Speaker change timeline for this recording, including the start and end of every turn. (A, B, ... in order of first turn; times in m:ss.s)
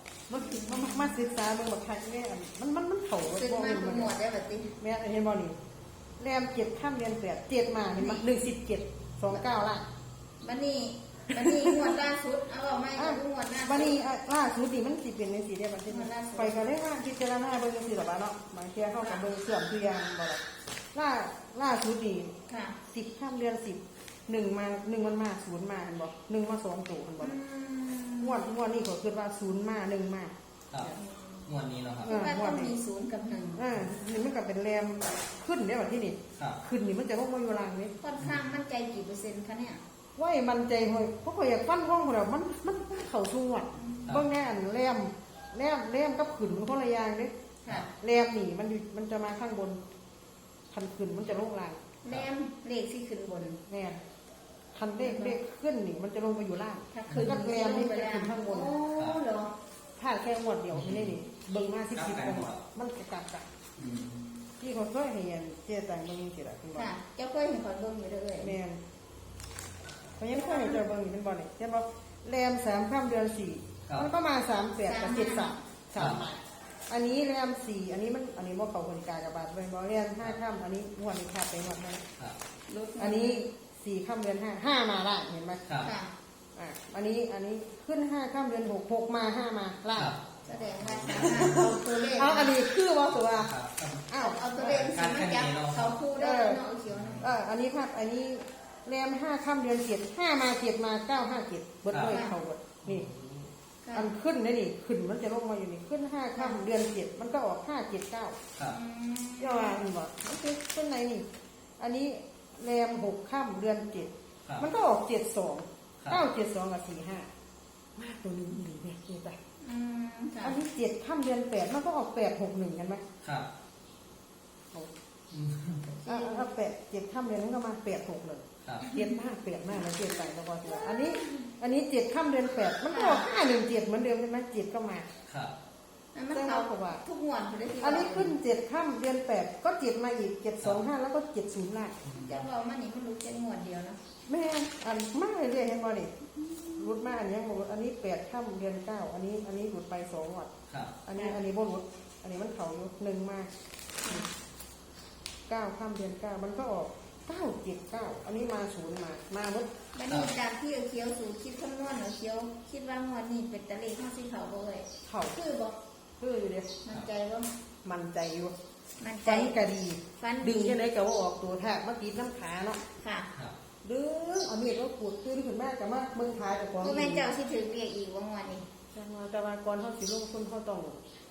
0:00.3-0:04.1 A
0:00.4-0:01.2 B
0:03.3-0:04.8 B
0:04.8-0:05.6 A
0:06.2-0:09.9 A
0:07.9-0:08.2 B
0:10.4-0:14.0 B
0:11.3-0:12.0 A
0:13.0-0:22.4 A
0:15.9-0:16.6 B
0:19.0-0:19.2 B
0:22.5-0:22.8 B
0:22.9-0:27.4 A
0:27.2-0:28.5 B
0:28.2-0:30.3 A
0:30.9-0:31.5 B
0:31.5-0:32.1 C
0:32.0-0:33.7 B
0:32.1-0:32.7 A
0:33.6-0:38.0 A
0:38.0-0:39.8 B
0:40.2-0:47.3 A
0:43.8-0:44.2 B
0:47.6-0:47.9 B
0:47.9-0:49.8 A
0:50.7-0:51.8 A
0:52.0-0:53.6 B
0:53.7-0:54.0 A
0:54.7-0:58.8 A
0:55.0-0:55.4 B
0:56.9-0:59.6 B
1:00.0-1:03.5 A
1:03.8-1:04.1 C
1:04.6-1:06.9 A
1:06.7-1:08.6 B
1:08.4-1:08.8 A
1:10.2-1:22.1 A
1:10.3-1:10.8 B
1:14.8-1:15.5 B
1:22.7-1:23.5 B
1:23.0-1:25.7 A
1:25.8-1:26.1 B
1:26.6-1:30.1 A
1:30.4-1:32.6 B
1:31.1-1:33.5 A
1:33.5-1:34.0 C
1:34.1-1:34.4 A
1:34.2-1:37.2 B
1:34.6-1:35.9 C
1:36.2-1:36.6 A
1:37.2-1:43.1 A
1:42.0-1:42.4 B
1:43.1-1:43.4 C
1:43.8-1:44.2 B
1:43.9-1:48.5 A
1:46.4-1:46.6 B
1:48.6-1:49.8 B
1:49.4-1:57.3 A
1:58.0-1:59.4 A
1:59.6-2:00.6 B
2:00.4-2:03.1 A
2:05.3-2:05.8 C
2:06.0-2:06.5 B
2:06.0-2:15.1 A
2:11.2-2:11.5 B
2:12.9-2:13.3 B
2:15.3-2:15.6 C
2:16.1-2:18.4 B
2:16.3-2:17.0 A
2:17.8-2:22.1 A
2:22.2-2:24.0 B
2:24.3-2:26.2 A
2:26.4-2:27.1 B
2:26.7-2:33.5 A
2:35.5-2:39.7 A
2:39.9-2:45.8 B
2:45.0-2:45.4 A
2:46.2-2:46.8 A
2:46.8-2:47.5 B
2:47.8-2:48.5 A
2:49.0-2:49.6 B
2:49.2-2:52.8 A
2:50.2-2:50.8 B
2:53.0-2:53.3 B
2:53.8-2:57.3 A
2:56.8-2:58.7 B
2:58.9-3:01.0 A